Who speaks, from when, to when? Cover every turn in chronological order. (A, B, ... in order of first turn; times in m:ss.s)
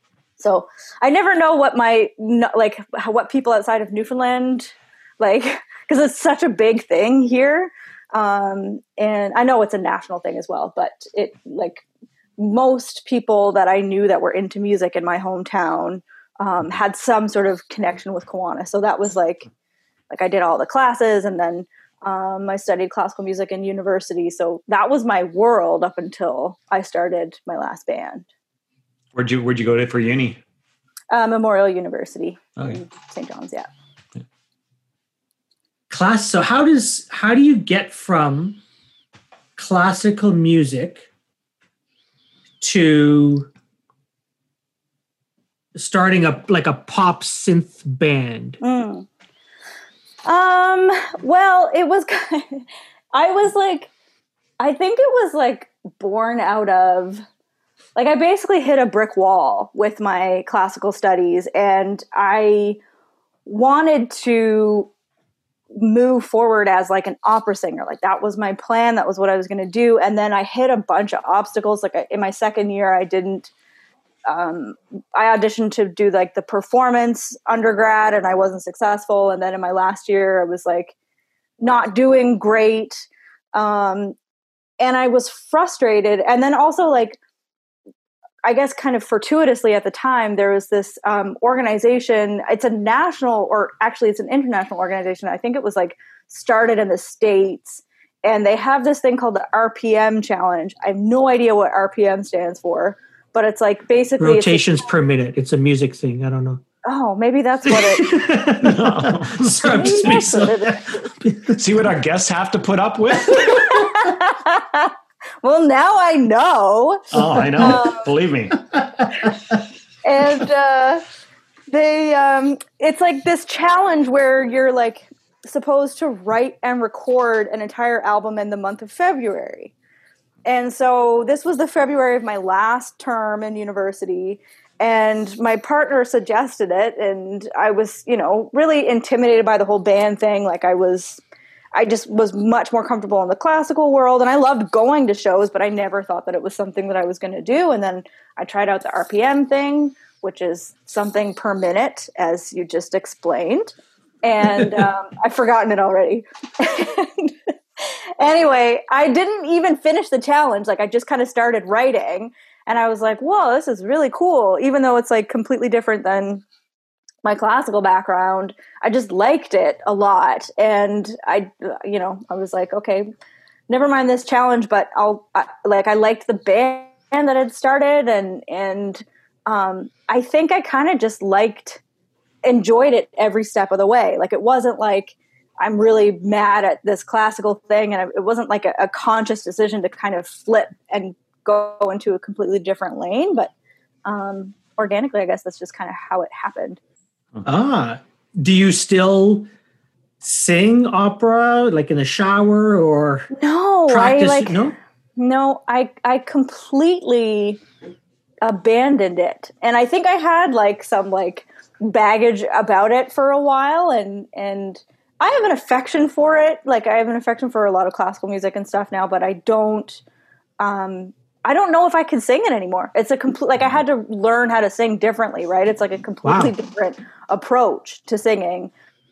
0:00.4-0:11.8 A
0:12.4-0:19.5 A
0:20.1-0:28.2 A
0:29.1-0:30.4 B
0:31.1-0:33.7 A
0:35.9-0:38.6 C
0:39.6-0:41.1 C
0:42.6-0:43.5 C
0:45.8-0:48.6 C
0:48.6-0:49.0 A
0:50.2-0:53.9 A
0:54.6-0:57.2 A
0:58.0-1:02.8 A
1:03.4-1:04.9 A
1:05.7-1:13.5 A
1:14.3-1:20.9 A
1:21.6-1:24.1 A
1:24.8-1:27.2 A
1:28.4-1:44.8 A
1:44.2-1:46.6 C
1:46.8-1:48.3 A
1:47.6-1:51.6 C
1:48.6-1:50.1 B
1:49.7-1:51.0 A
1:51.6-1:53.9 B
1:53.4-1:58.1 A
1:57.1-1:58.6 B
1:58.7-1:59.6 C
2:00.0-2:01.0 A
2:01.7-2:09.7 A
2:10.4-2:21.2 A
2:21.7-2:46.4 A
2:47.2-2:53.1 A
2:53.7-3:01.8 A
3:02.4-3:13.5 A
3:14.0-3:16.8 A
3:17.4-3:19.5 C
3:20.2-3:23.3 C
3:23.3-3:24.6 A
3:23.9-3:24.8 C
3:25.2-3:27.6 A
3:28.4-3:40.0 A
3:40.6-3:48.7 A
3:46.2-3:46.5 C